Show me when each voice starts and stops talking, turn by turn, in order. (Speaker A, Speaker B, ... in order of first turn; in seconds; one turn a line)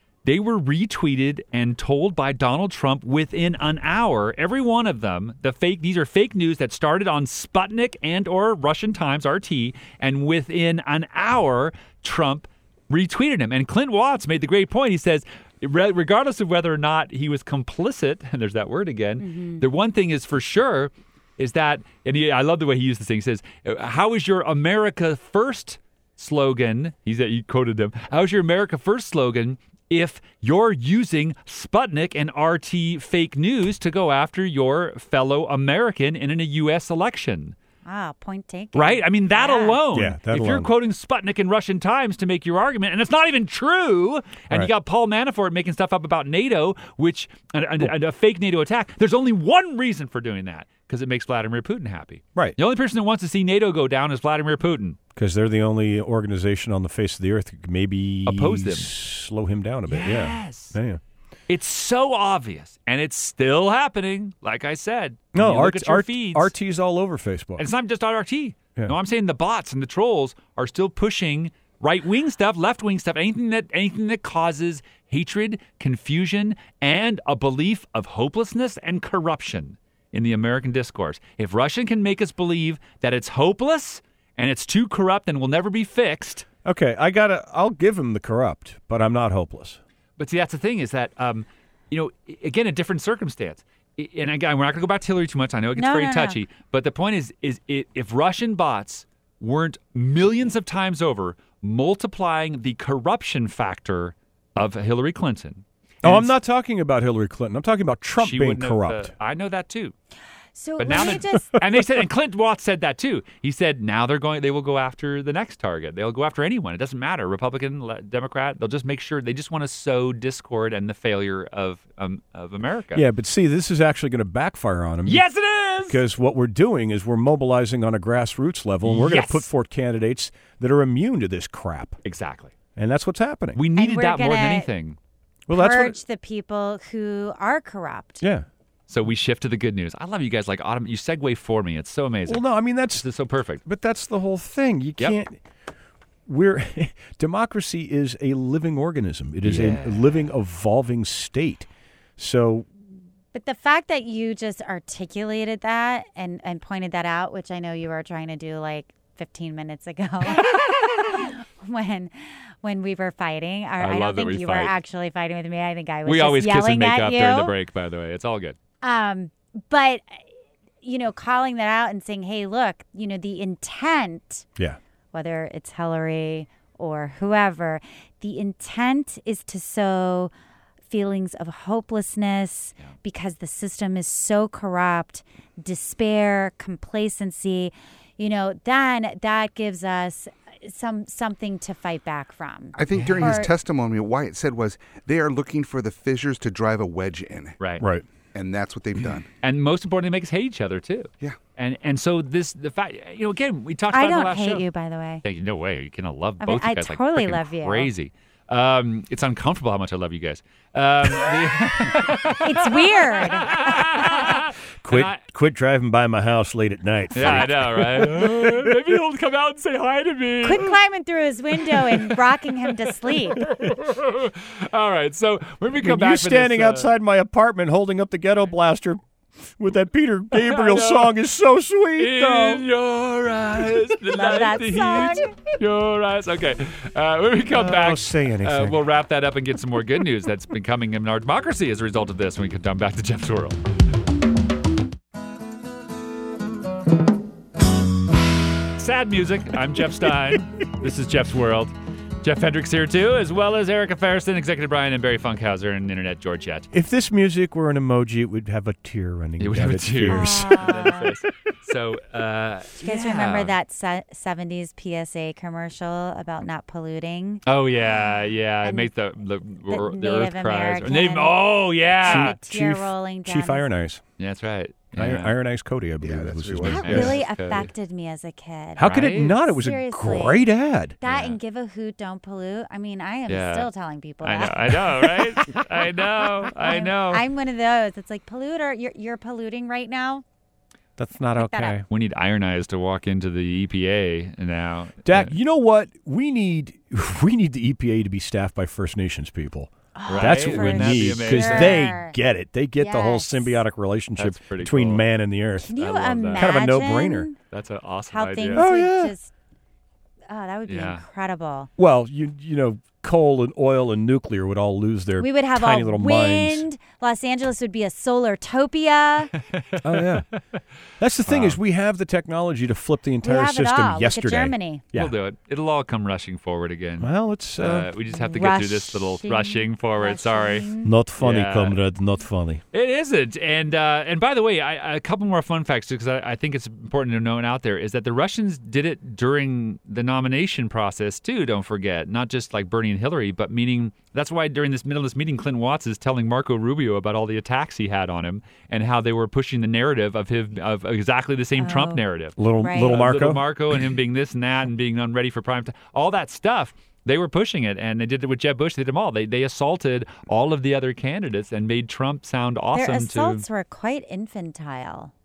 Speaker A: 0.2-37.6
Speaker B: 19.2-19.6
Speaker B: 37.9-39.8
Speaker A: 38.8-55.0
Speaker C: 39.9-40.7
Speaker C: 55.1-61.0
Speaker A: 58.3-58.9
Speaker A: 59.9-60.7
Speaker A: 61.5-66.5
Speaker C: 65.3-67.7
Speaker A: 67.6-86.5
Speaker C: 86.7-89.8
Speaker A: 90.2-106.3
Speaker B: 95.8-96.4
Speaker C: 106.0-109.1
Speaker A: 108.2-109.9
Speaker B: 110.6-111.6
Speaker A: 110.8-123.0
Speaker C: 110.9-111.6
Speaker C: 122.9-125.2
Speaker A: 125.1-126.0
Speaker C: 125.8-132.0
Speaker A: 128.8-129.5
Speaker A: 132.0-132.5
Speaker C: 132.8-133.6
Speaker A: 133.6-135.0
Speaker B: 133.8-134.7
Speaker C: 135.5-136.0
Speaker B: 135.5-138.2
Speaker C: 138.2-138.5
Speaker A: 138.9-143.6
Speaker C: 142.3-143.1
Speaker C: 143.7-145.4
Speaker C: 146.3-151.7
Speaker A: 149.4-150.2
Speaker C: 152.2-152.7
Speaker B: 153.3-167.5
Speaker A: 163.8-164.8
Speaker A: 166.1-168.6
Speaker B: 168.8-170.2
Speaker B: 170.8-174.4
Speaker B: 175.1-180.3
Speaker B: 180.9-193.5
Speaker D: 192.8-197.6
Speaker C: 193.0-193.3
Speaker D: 198.3-199.3
Speaker A: 199.4-204.7
Speaker B: 203.9-205.2
Speaker A: 205.2-215.2
Speaker B: 206.4-207.9
Speaker B: 212.4-214.3
Speaker C: 214.8-218.8
Speaker A: 217.1-220.7
Speaker B: 220.4-223.4
Speaker A: 221.7-222.2
Speaker A: 223.4-226.9
Speaker C: 225.8-229.0
Speaker C: 229.6-232.6
Speaker A: 230.3-231.2
Speaker A: 232.0-243.6
Speaker B: 234.1-235.3
Speaker C: 237.5-238.8
Speaker A: 248.8-256.7
Speaker C: 256.7-261.1
Speaker A: 259.4-263.5
Speaker B: 260.1-261.1
Speaker B: 262.8-268.1
Speaker A: 267.5-272.4
Speaker B: 268.6-268.9
Speaker B: 269.7-271.4
Speaker B: 272.0-273.7
Speaker C: 272.0-274.0
Speaker A: 274.2-275.3
Speaker C: 274.9-277.2
Speaker D: 276.0-276.8
Speaker B: 276.7-280.5
Speaker A: 276.8-277.7
Speaker C: 278.8-281.0
Speaker A: 278.8-279.4
Speaker B: 281.0-284.7
Speaker A: 281.0-281.4
Speaker A: 283.3-283.7
Speaker A: 284.2-287.2
Speaker B: 286.6-290.2
Speaker C: 291.0-291.9
Speaker B: 291.4-291.8
Speaker A: 291.9-295.3
Speaker C: 295.1-305.7
Speaker B: 300.0-302.2
Speaker A: 300.1-301.9
Speaker B: 302.8-303.5
Speaker A: 304.2-305.0
Speaker B: 305.6-307.4
Speaker A: 305.8-306.5
Speaker C: 306.3-307.3
Speaker A: 307.5-308.7
Speaker B: 308.1-309.3
Speaker C: 308.5-309.1
Speaker B: 310.3-311.7
Speaker A: 310.7-311.0
Speaker C: 311.8-316.7
Speaker B: 315.2-319.3
Speaker A: 319.5-320.2
Speaker C: 319.8-320.3
Speaker C: 321.0-325.1
Speaker A: 321.3-321.6
Speaker B: 323.2-324.8
Speaker A: 324.9-330.7
Speaker C: 327.0-327.9
Speaker B: 328.1-330.9
Speaker C: 330.8-332.6
Speaker A: 331.2-331.8
Speaker A: 332.7-363.4
Speaker B: 351.6-352.0
Speaker C: 352.4-353.4
Speaker B: 352.6-353.0
Speaker B: 362.7-365.1